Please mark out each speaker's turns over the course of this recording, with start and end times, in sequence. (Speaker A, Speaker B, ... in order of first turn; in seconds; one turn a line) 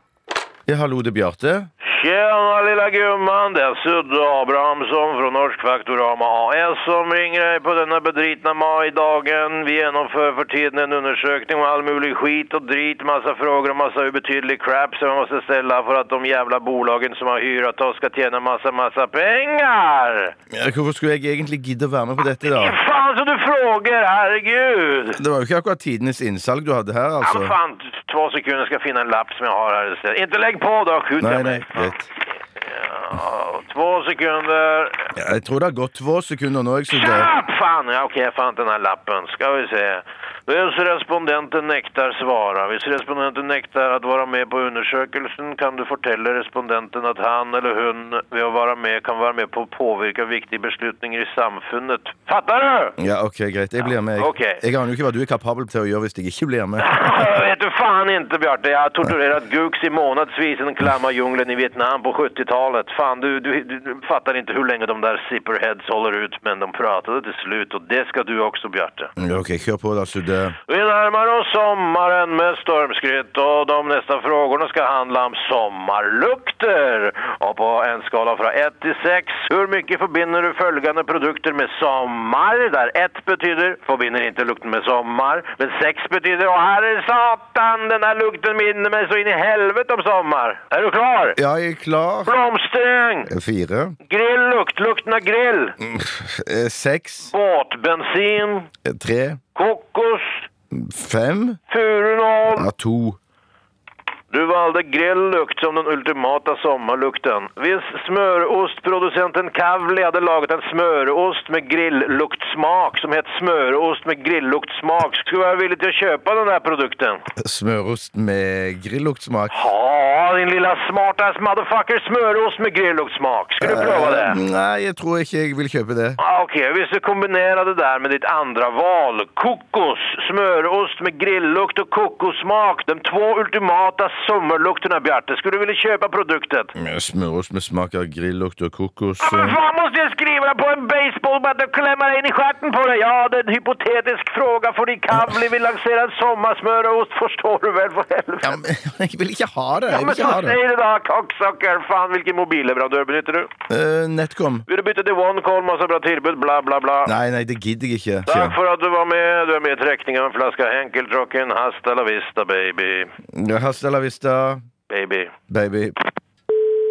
Speaker A: 0.7-1.7
Speaker B: 1.9-20.3
Speaker A: 20.5-22.8
Speaker B: 22.4-25.2
Speaker A: 25.1-27.5
Speaker B: 27.2-35.1
Speaker A: 31.2-32.1
Speaker A: 35.1-37.3
Speaker B: 36.9-53.0
Speaker A: 53.0-56.9
Speaker B: 54.1-54.6
Speaker B: 56.8-69.1
Speaker A: 69.2-70.5
Speaker B: 70.7-91.4
Speaker A: 91.4-92.3
Speaker B: 92.2-93.3
Speaker A: 93.3-94.0
Speaker B: 94.1-95.8
Speaker A: 95.8-97.3
Speaker B: 97.2-98.7
Speaker A: 98.8-99.4
Speaker B: 99.5-100.5
Speaker A: 100.7-101.6
Speaker B: 101.7-102.7
Speaker A: 102.5-103.2
Speaker B: 104.3-117.2
Speaker A: 117.4-119.5
Speaker B: 119.5-124.4
Speaker A: 123.6-126.2
Speaker B: 126.2-136.7
Speaker A: 136.8-139.6
Speaker B: 139.2-148.6
Speaker A: 148.4-150.6
Speaker B: 149.9-153.5
Speaker A: 153.7-154.7
Speaker B: 154.7-157.1
Speaker A: 157.0-158.6
Speaker B: 158.3-163.1
Speaker A: 163.3-164.6
Speaker B: 164.9-165.3
Speaker A: 165.5-165.9